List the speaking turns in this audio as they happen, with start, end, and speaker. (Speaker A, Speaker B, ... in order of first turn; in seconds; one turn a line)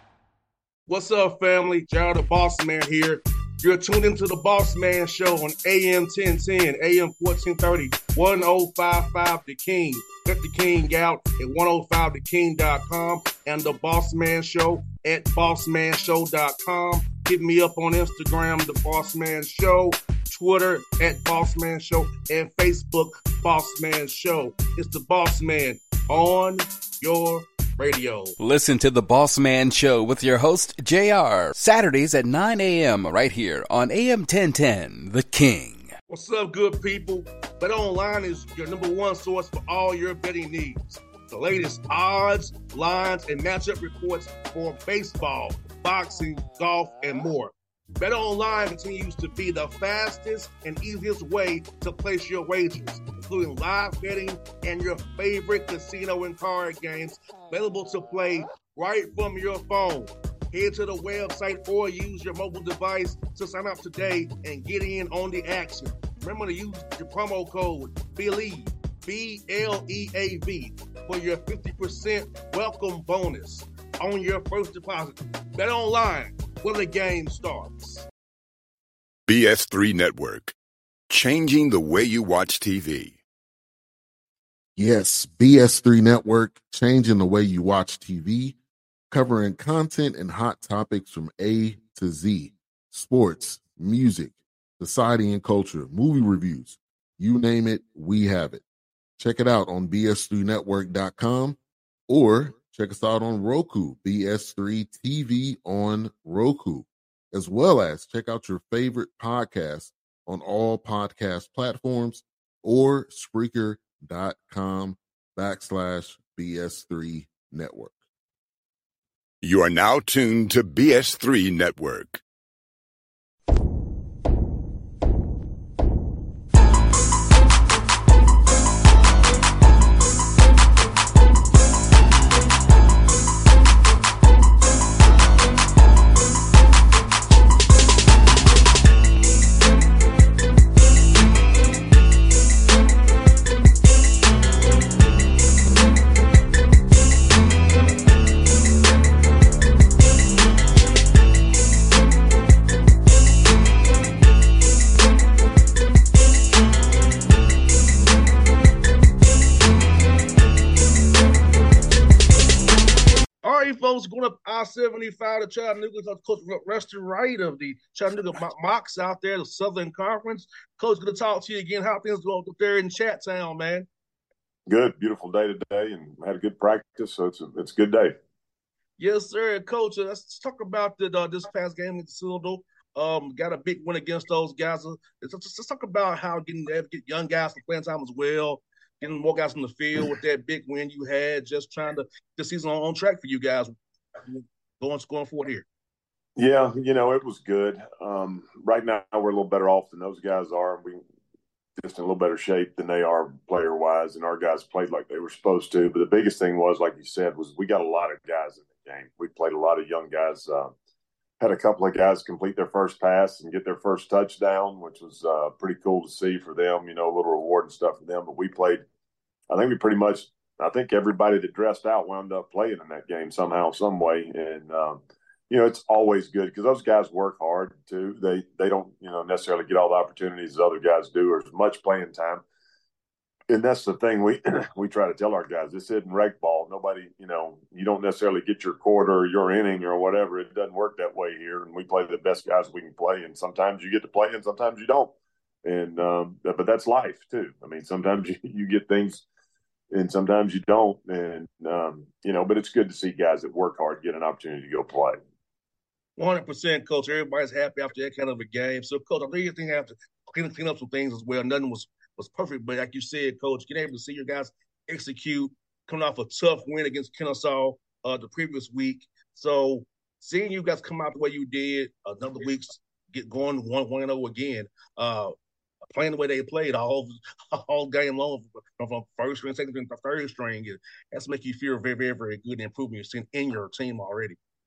Speaker A: 0.9-28.3
Speaker B: 28.4-35.9
Speaker A: 36.1-78.0
Speaker C: 79.3-80.5
Speaker C: 81.1-83.2
Speaker D: 84.8-88.5
Speaker D: 89.1-98.6
Speaker D: 99.2-117.9
Speaker C: 119.4-122.2
Speaker A: 163.4-173.9
Speaker E: 174.7-178.1
Speaker A: 179.0-195.7
Speaker E: 196.4-201.0
Speaker E: 201.8-210.7
Speaker E: 211.4-218.8
Speaker E: 219.5-232.4
Speaker E: 233.5-249.2
Speaker E: 249.9-255.2
Speaker A: 256.1-275.3
Speaker A: 275.9-284.4